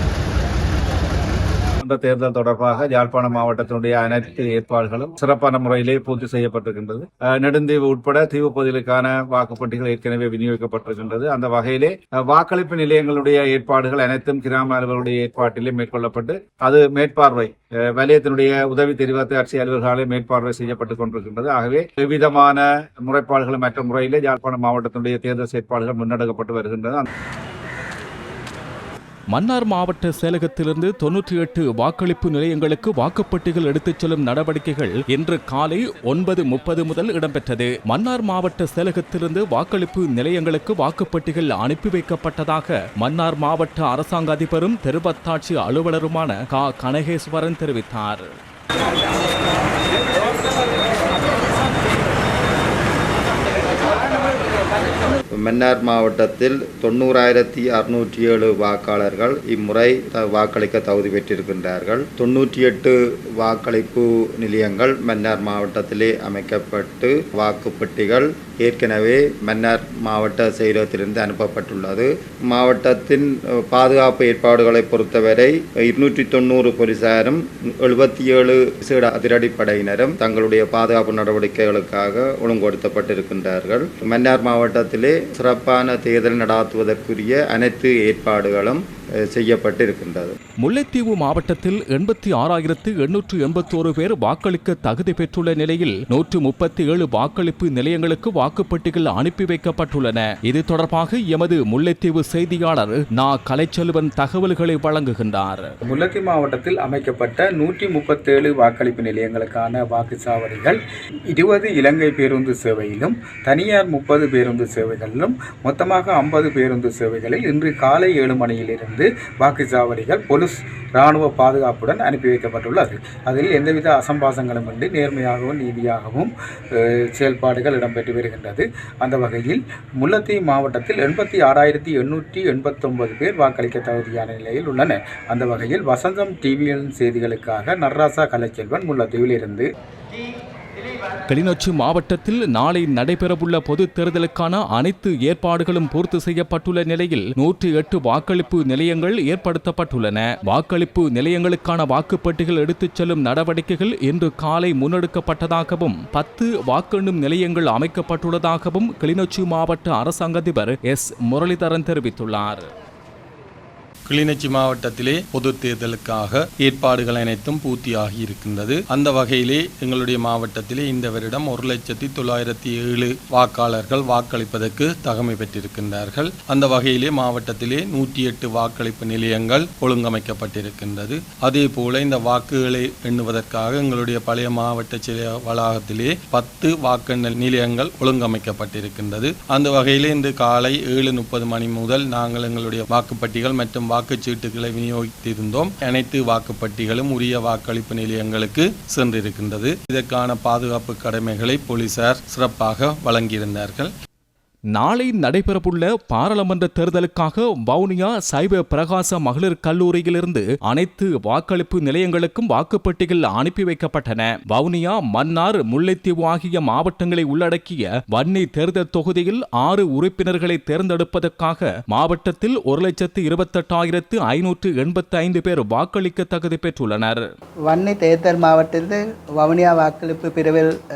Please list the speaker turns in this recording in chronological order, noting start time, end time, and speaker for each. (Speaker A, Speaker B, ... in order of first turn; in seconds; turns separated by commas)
Speaker A: 1.8-27.1, Speaker B: 29.3-48.3, Speaker C: 55.4-88.8, Speaker C: 89.3-90.3, Speaker B: 90.6-105.7, Speaker D: 105.8-110.8, Speaker D: 111.3-139.7, Speaker B: 141.3-162.7, Speaker E: 164.1-203.9, Speaker B: 204.7-227.2, Speaker F: 227.7-230.7